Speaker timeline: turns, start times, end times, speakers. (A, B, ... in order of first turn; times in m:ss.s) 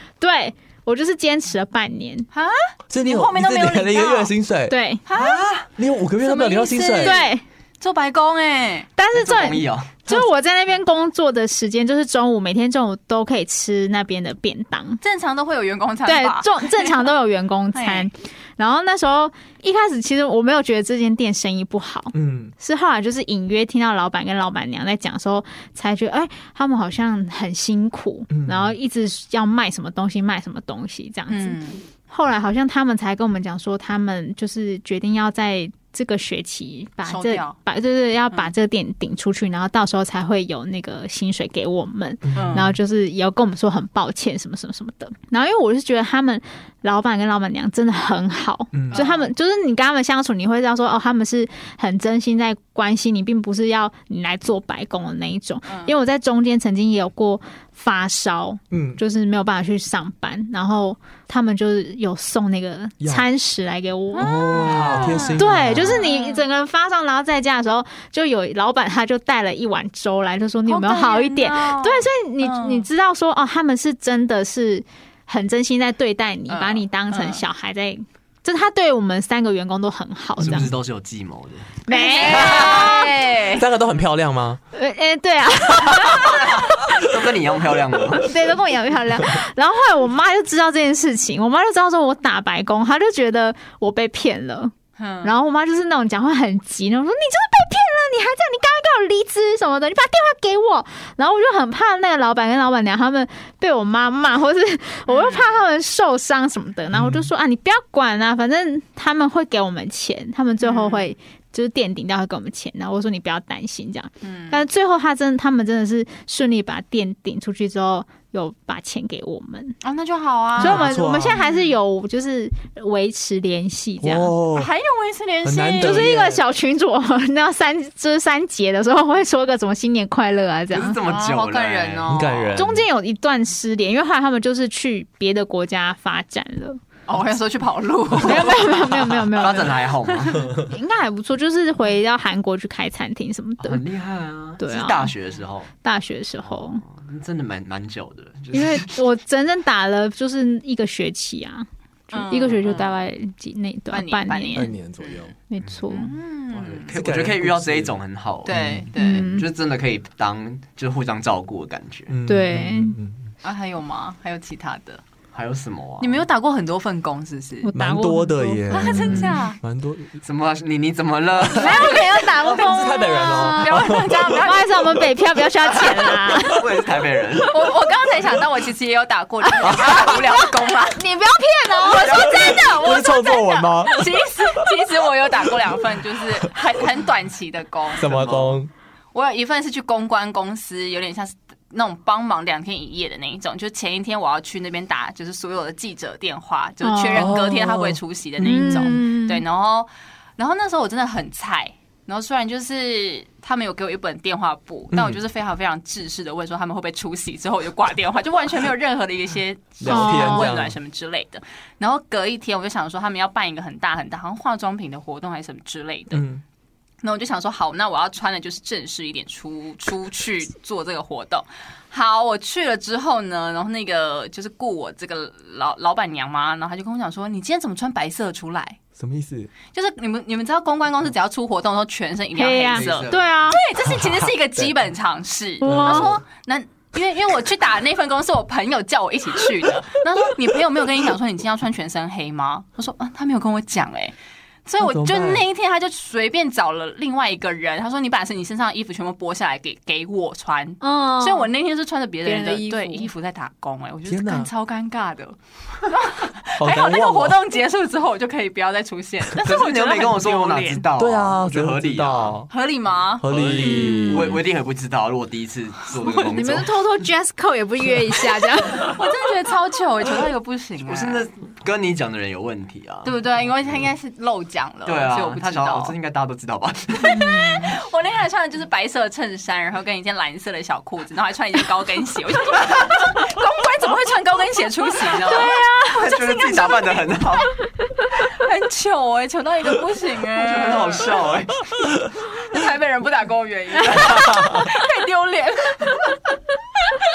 0:00.2-0:02.3 A
0:02.3-0:04.3 B
0:02.9-0:04.7 C
0:04.7-0:05.0 A
0:05.0-0:05.5 B
0:05.1-0:05.7 D
0:05.8-0:07.2 C
0:06.2-0:08.9 B
0:07.0-0:07.4 A
0:09.0-0:15.0 A
0:09.1-0:10.1 D
0:15.0-0:17.0 B
0:16.0-1:04.6 A
0:17.7-0:18.1 B
0:22.1-0:22.5 C
0:28.3-0:28.7 C
0:31.3-0:31.8 B
0:37.1-0:37.6 B
0:42.3-0:42.7 C
0:42.3-0:42.7 B
0:48.7-0:49.0 C
0:48.9-0:49.3 B
0:55.7-0:55.9 B
0:58.7-0:59.0 C
1:03.0-1:03.2 C
1:04.1-1:06.4 B
1:04.2-1:06.0 C
1:04.6-1:05.4 D
1:05.4-1:20.7 A
1:10.6-1:12.9 B
1:16.5-1:17.4 B
1:20.4-1:21.8 D
1:20.4-1:20.7 C
1:21.8-1:23.5 A
1:21.9-1:23.7 B
1:22.4-1:23.0 D
1:23.5-1:24.6 C
1:24.7-1:26.6 A
1:26.1-1:28.3 D
1:28.2-1:59.8 A
1:35.0-1:35.3 B
1:45.1-1:45.6 B
1:46.9-1:47.2 C
1:50.6-1:51.1 B
1:54.2-1:54.6 B
1:59.8-2:01.7 B
2:00.6-2:04.3 A
2:00.6-2:01.4 C
2:04.0-2:04.7 C
2:04.5-2:06.1 B
2:05.4-2:06.4 C
2:05.8-2:11.0 A
2:10.7-2:12.6 D
2:11.0-2:12.5 B
2:12.1-2:12.8 C
2:12.6-2:16.8 A
2:17.1-2:19.3 B
2:18.1-2:23.8 A
2:19.4-2:20.6 D
2:20.4-2:20.7 C
2:23.6-2:25.7 D
2:24.6-2:25.1 A
2:25.8-2:26.8 A
2:26.4-2:28.9 D
2:28.5-2:34.7 A
2:32.1-2:33.0 B
2:33.9-2:35.3 B
2:34.5-2:35.3 C
2:35.5-2:36.1 A
2:35.9-2:36.9 B
2:36.5-2:42.2 D
2:36.9-2:38.0 C
2:38.4-2:39.3 B
2:38.5-2:38.9 C
2:39.0-2:39.4 A
2:42.1-2:43.3 C
2:42.3-2:43.0 A
2:43.4-2:45.0 B
2:45.3-2:46.2 D
2:46.0-2:47.7 B
2:47.6-2:49.3 A
2:47.7-2:50.2 C
2:48.7-2:49.6 B
2:50.2-2:52.2 D
2:51.5-2:56.6 A
2:51.5-2:52.0 B
2:52.5-2:54.4 C
2:53.1-2:55.0 B
2:56.3-2:57.7 D
2:57.5-3:01.0 B
2:59.4-3:03.6 A
3:01.8-3:08.1 B
3:01.8-3:02.8 D
3:02.1-3:04.1 C
3:08.0-3:08.6 D
3:08.0-3:08.7 C
3:09.1-3:36.2 B
3:16.8-3:17.3 A
3:17.1-3:18.0 C
3:18.4-3:19.4 A
3:24.9-3:25.2 C
3:29.8-3:30.8 C
3:29.8-3:30.5 A
3:36.1-3:36.4 C
3:37.0-3:48.8 B
3:49.0-3:49.5 C
3:49.7-4:20.8 B
3:52.3-3:53.6 A
3:52.7-3:53.3 D
3:53.8-3:54.7 C
3:55.6-3:56.2 A
3:55.6-3:56.2 C
4:04.8-4:05.5 C
4:10.8-4:11.5 A
4:12.2-4:13.1 A
4:14.0-4:14.5 C
4:16.6-4:17.4 C
4:19.3-4:22.4 D
4:20.9-4:22.5 C
4:22.5-4:23.3 B
4:23.2-4:24.4 C
4:23.2-4:26.7 D
4:23.6-4:24.4 A
4:26.1-4:26.4 B
4:26.2-4:29.0 A
4:28.7-4:31.2 B
4:30.8-4:33.8 D
4:33.0-4:35.9 B
4:34.8-4:37.6 D
4:37.0-4:47.2 B
4:45.0-4:47.5 D
4:45.2-4:46.0 A
4:48.0-4:51.3 B
4:50.3-4:51.6 D
4:52.2-4:56.2 B
4:54.1-4:54.6 C